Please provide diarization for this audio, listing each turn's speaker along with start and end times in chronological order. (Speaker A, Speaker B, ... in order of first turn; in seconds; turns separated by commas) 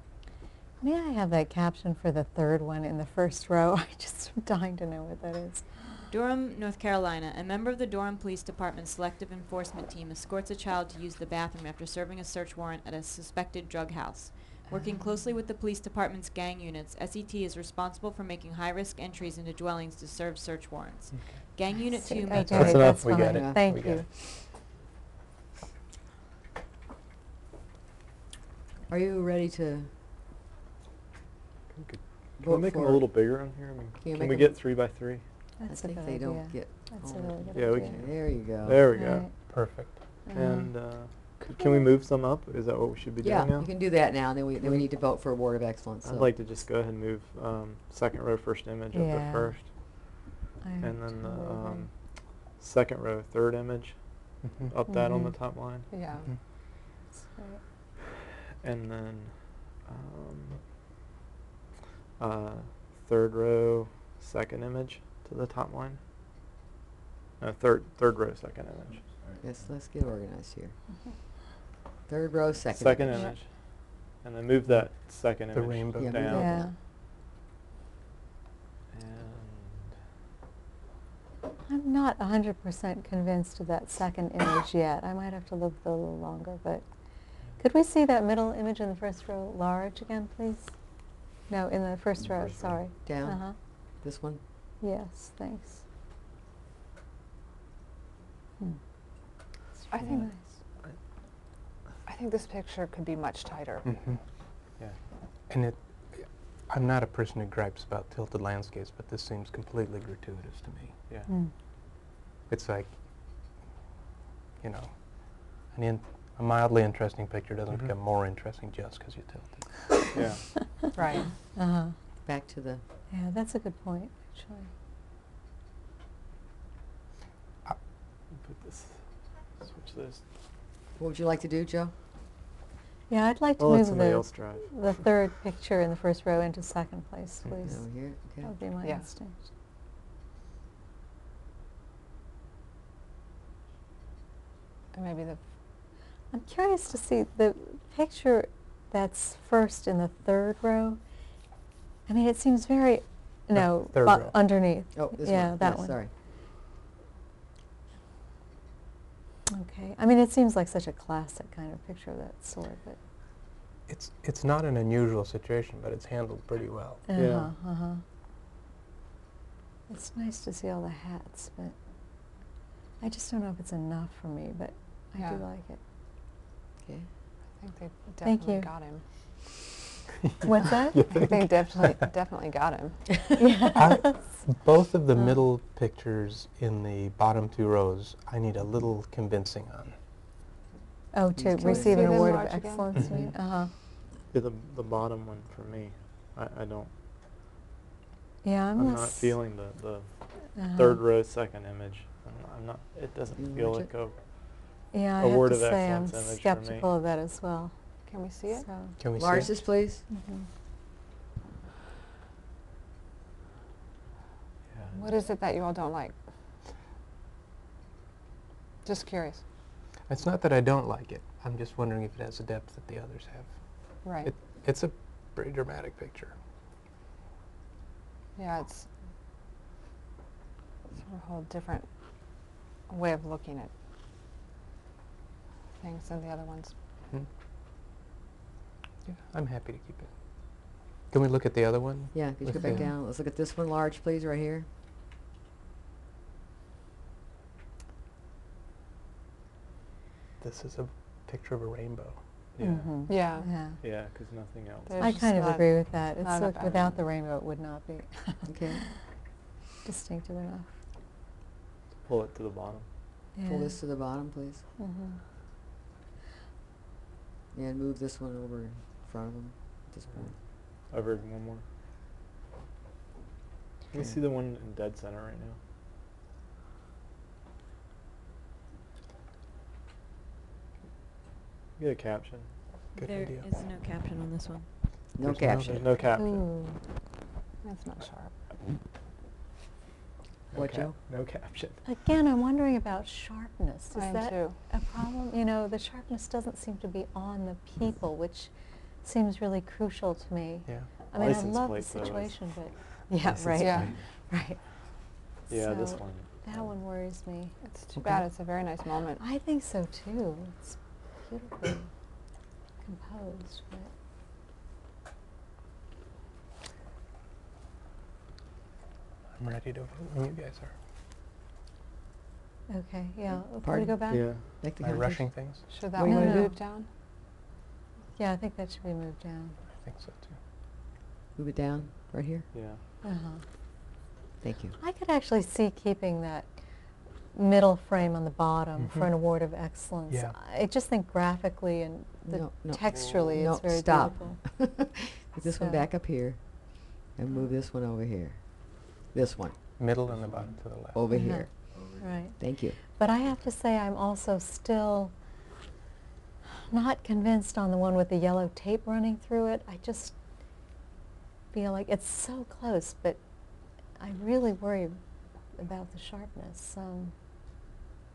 Speaker A: 0.8-5.9, Speaker B: 6.1-22.5, Speaker A: 21.9-24.1, Speaker C: 22.4-24.1, Speaker D: 22.5-23.2, Speaker E: 23.2-23.6, Speaker E: 28.9-29.9, Speaker D: 31.7-35.2, Speaker E: 32.4-33.1, Speaker E: 34.0-34.5, Speaker A: 35.6-38.0, Speaker E: 35.7-38.9, Speaker D: 37.5-39.3, Speaker A: 38.9-39.3, Speaker C: 39.5-40.0, Speaker A: 40.3-40.7, Speaker D: 40.3-43.7, Speaker E: 43.2-46.3, Speaker D: 44.6-44.9, Speaker D: 46.0-49.7, Speaker A: 48.9-49.5, Speaker A: 50.6-51.9, Speaker D: 50.8-51.9, Speaker D: 52.6-54.0, Speaker C: 54.4-54.7, Speaker D: 54.7-55.9, Speaker A: 54.9-55.3, Speaker F: 55.9-56.3, Speaker A: 57.1-57.6, Speaker D: 58.6-60.6, Speaker D: 62.2-66.0, Speaker D: 67.4-69.1, Speaker E: 69.4-70.7, Speaker E: 72.1-73.3, Speaker D: 72.7-73.5, Speaker D: 74.2-76.5, Speaker C: 75.5-76.3, Speaker E: 76.0-76.7, Speaker A: 76.3-76.7, Speaker D: 78.9-79.9, Speaker A: 81.7-86.8, Speaker A: 87.6-90.7, Speaker A: 91.5-93.5, Speaker E: 93.0-93.4, Speaker E: 94.0-94.4, Speaker A: 94.8-95.8, Speaker A: 99.8-100.5, Speaker F: 99.9-100.3, Speaker F: 102.0-103.8, Speaker C: 103.9-104.2, Speaker C: 105.5-110.9, Speaker C: 112.5-112.9, Speaker C: 114.6-119.8, Speaker D: 120.1-120.4, Speaker F: 121.0-121.3, Speaker A: 121.5-121.9, Speaker E: 122.2-122.8, Speaker A: 123.1-124.7, Speaker D: 128.4-129.0, Speaker D: 129.6-130.2, Speaker E: 131.0-131.9, Speaker A: 133.1-137.8, Speaker D: 133.6-134.7, Speaker E: 137.6-138.5, Speaker A: 138.4-139.5, Speaker F: 138.8-139.1, Speaker F: 144.9-145.4, Speaker A: 146.3-151.0, Speaker A: 152.1-155.9, Speaker C: 153.5-154.4, Speaker E: 154.9-156.1, Speaker A: 159.5-163.0, Speaker C: 163.9-167.0, Speaker A: 167.1-168.0, Speaker D: 167.2-167.5, Speaker A: 169.9-171.7, Speaker A: 173.0-175.8, Speaker F: 175.2-175.4, Speaker F: 177.6-179.0, Speaker A: 178.2-178.7, Speaker A: 180.4-181.1, Speaker F: 181.1-183.2, Speaker A: 183.3-184.2, Speaker C: 183.7-190.0, Speaker A: 191.1-193.7, Speaker E: 191.3-192.1, Speaker F: 191.6-192.9, Speaker D: 194.3-196.9, Speaker A: 198.4-199.3, Speaker D: 198.8-204.2, Speaker A: 200.6-201.0, Speaker E: 203.4-203.9, Speaker A: 204.9-207.7, Speaker D: 205.2-206.9, Speaker F: 208.1-208.7, Speaker A: 208.5-209.0, Speaker C: 209.0-209.6, Speaker E: 209.2-210.0, Speaker A: 210.1-210.4, Speaker D: 214.7-215.1, Speaker F: 214.9-216.1, Speaker F: 218.8-219.4, Speaker C: 220.1-223.5, Speaker F: 224.0-224.3, Speaker C: 224.2-226.3, Speaker F: 228.3-228.9, Speaker F: 231.0-231.9, Speaker F: 232.9-233.7, Speaker F: 235.8-236.7, Speaker C: 239.0-240.1, Speaker C: 241.1-242.9, Speaker E: 242.1-244.7, Speaker C: 250.4-252.2, Speaker D: 252.5-253.2, Speaker A: 252.6-253.8, Speaker F: 253.1-253.5, Speaker D: 253.8-255.2, Speaker F: 254.9-257.0, Speaker A: 255.0-259.0, Speaker E: 258.5-258.8, Speaker A: 259.8-260.7, Speaker D: 262.0-262.9, Speaker A: 263.4-263.8, Speaker E: 263.4-264.6, Speaker A: 264.8-265.2, Speaker E: 267.5-270.3, Speaker D: 270.9-271.6, Speaker D: 273.9-275.6, Speaker D: 281.8-282.5, Speaker C: 283.0-283.5, Speaker B: 283.0-284.7, Speaker E: 285.1-285.8, Speaker C: 285.2-285.9, Speaker D: 285.7-286.4, Speaker A: 286.0-286.8, Speaker F: 287.6-288.3, Speaker D: 290.5-291.8, Speaker E: 290.5-290.9, Speaker A: 291.8-298.5, Speaker F: 293.9-294.6, Speaker A: 299.0-304.6, Speaker D: 301.1-302.6, Speaker D: 303.2-303.9, Speaker F: 303.6-304.0, Speaker D: 305.5-306.7, Speaker A: 305.5-307.5, Speaker F: 307.6-309.2, Speaker E: 307.9-308.3, Speaker A: 309.2-311.9, Speaker A: 312.8-313.9, Speaker C: 319.4-320.7, Speaker A: 322.7-324.4, Speaker E: 323.5-325.3, Speaker D: 324.1-324.5, Speaker C: 324.8-325.6, Speaker F: 325.7-326.9, Speaker A: 326.0-326.6, Speaker A: 328.1-329.6, Speaker C: 329.8-330.3, Speaker E: 331.4-332.4, Speaker D: 332.5-332.8, Speaker A: 333.0-333.4, Speaker E: 334.4-334.8, Speaker A: 334.8-336.5, Speaker A: 337.3-344.4, Speaker C: 338.8-339.1, Speaker C: 340.1-340.4, Speaker E: 342.3-349.6, Speaker A: 345.4-345.9, Speaker C: 349.8-351.0, Speaker E: 350.9-351.5, Speaker A: 351.1-355.1, Speaker E: 352.4-352.8, Speaker A: 356.5-360.1, Speaker A: 361.5-363.2, Speaker A: 364.0-365.0, Speaker A: 365.6-367.1